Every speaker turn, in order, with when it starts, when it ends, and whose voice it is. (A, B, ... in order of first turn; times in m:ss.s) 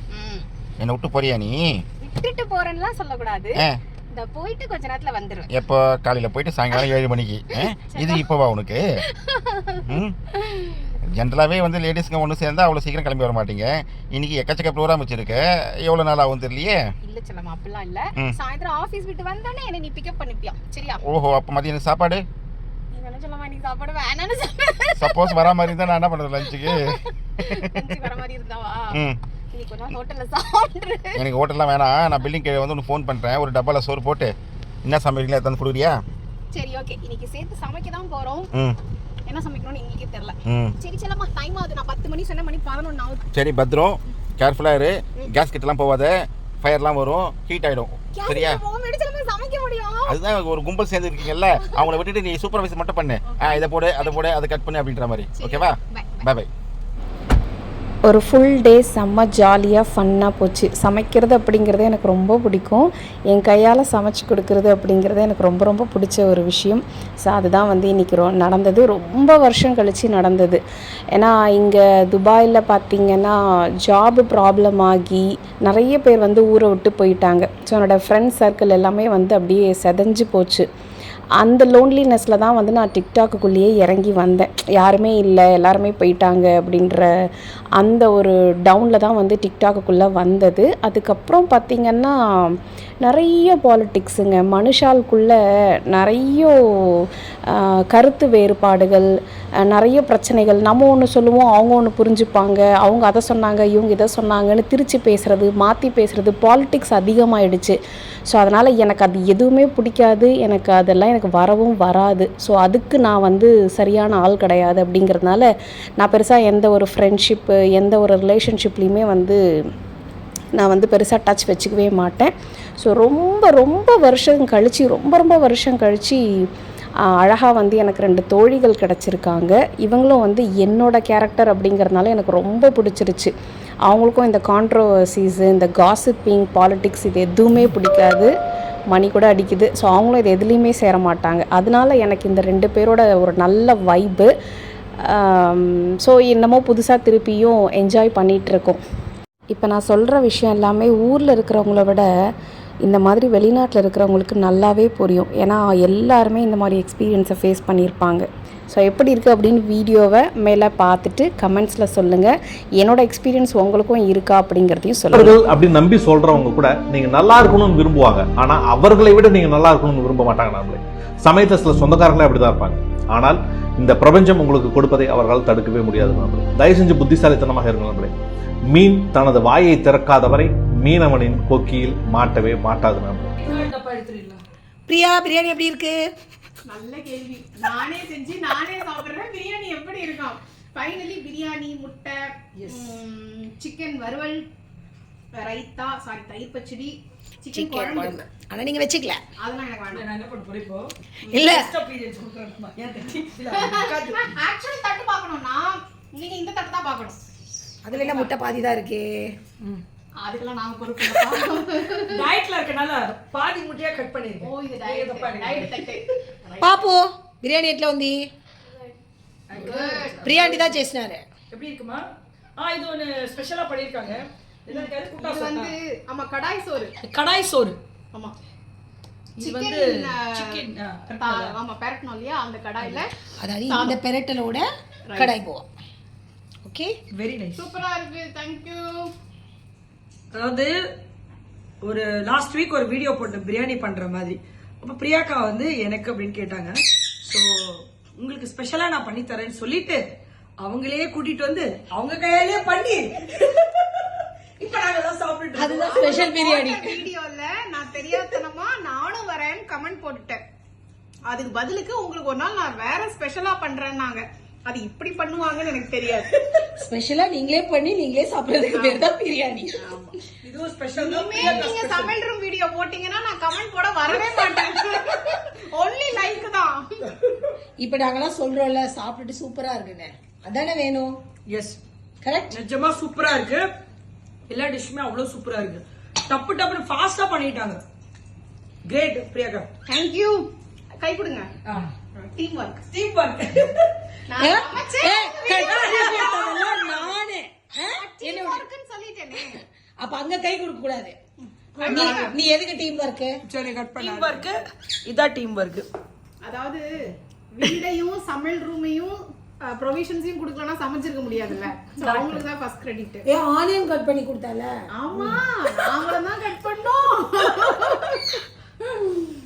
0:00.1-0:00.5 A
0:00.8-0:01.8 B
0:02.0-0:03.6 A
0:04.1-0:05.5 A
0:05.5-0:08.8 B
0:07.5-0:08.3 A
0:09.1-0:10.0 A
0:09.8-0:10.1 B
0:10.5-0:10.8 A
0:11.2-0:16.8 B
0:17.0-0:21.0 A
0:21.0-0:22.2 B
0:22.9-0:25.6 A
0:25.0-0:26.8 B
0:26.4-0:29.0 A
0:28.9-0:29.2 B
0:29.5-0:31.2 A
0:31.2-0:34.3 B
0:34.8-0:36.0 B
0:36.5-0:38.5 A
0:39.3-0:43.2 A
0:40.5-0:40.7 B
0:43.3-0:48.6 B
0:48.1-0:50.2 A
0:50.1-0:56.5 B
0:51.6-0:52.0 A
0:53.3-0:54.2 A
0:55.4-0:56.3 A
0:58.1-1:10.6 C
1:11.1-1:20.7 C
1:21.4-1:35.4 C
1:35.9-1:39.1 C
1:39.6-1:47.8 C
1:48.3-1:59.4 C
2:00.6-2:06.4 C
2:07.1-2:13.3 C
2:13.9-2:18.3 C
2:18.9-2:24.3 C
2:25.0-2:28.8 C
2:29.5-2:32.1 C
2:32.8-2:45.4 C
2:45.1-2:58.1 D
2:58.7-3:03.3 D
3:03.4-3:04.4 E
3:04.9-3:06.0 F
3:06.7-3:14.5 A
3:12.6-3:13.0 E
3:15.3-3:18.2 A
3:17.5-3:19.2 F
3:19.4-3:20.0 A
3:19.9-3:24.2 E
3:21.2-3:21.6 A
3:21.3-3:21.7 F
3:23.5-3:27.2 A
3:27.8-3:29.8 F
3:27.9-3:28.3 A
3:30.2-3:32.2 A
3:32.1-3:36.0 E
3:34.4-3:36.0 A
3:36.6-3:38.3 F
3:39.5-3:40.8 E
3:39.5-3:40.5 A
3:40.2-3:41.2 F
3:41.5-3:42.0 E
3:42.6-3:45.7 E
3:44.7-3:46.9 A
3:47.0-3:47.8 E
3:49.4-3:51.5 E
3:49.4-3:50.6 A
3:51.2-3:53.1 A
3:53.4-3:55.7 F
3:53.7-3:54.0 A
3:55.0-3:55.4 A
3:56.6-3:57.0 F
3:57.1-3:57.6 E
3:57.6-3:59.1 A
4:00.3-4:00.8 E
4:01.8-4:10.0 E
4:10.6-4:13.8 E
4:14.6-4:16.0 E
4:15.5-4:17.0 F
4:15.7-4:20.4 A
4:21.3-4:26.3 A
4:26.6-4:30.0 F
4:28.7-4:29.1 A
4:29.8-4:30.1 A
4:30.4-4:32.1 E
4:30.9-4:37.1 A
4:31.4-4:31.7 F
4:37.8-4:41.2 F
4:41.5-4:41.8 E
4:42.2-4:42.6 F
4:42.5-4:43.7 E
4:44.5-4:47.8 E
4:48.9-4:49.7 E
4:49.8-4:50.5 A
4:51.0-4:51.5 A
4:52.1-4:52.8 A
4:52.9-4:53.8 E
4:54.3-4:57.1 A
4:54.4-4:58.7 F
4:55.5-4:57.0 E
4:57.9-4:59.6 A
4:59.5-5:01.2 F
5:01.8-5:02.4 A
5:01.8-5:03.4 F
5:01.8-5:02.2 E
5:03.5-5:05.8 E
5:06.4-5:13.2 A
5:12.0-5:12.4 E
5:13.3-5:15.4 F
5:15.0-5:18.4 A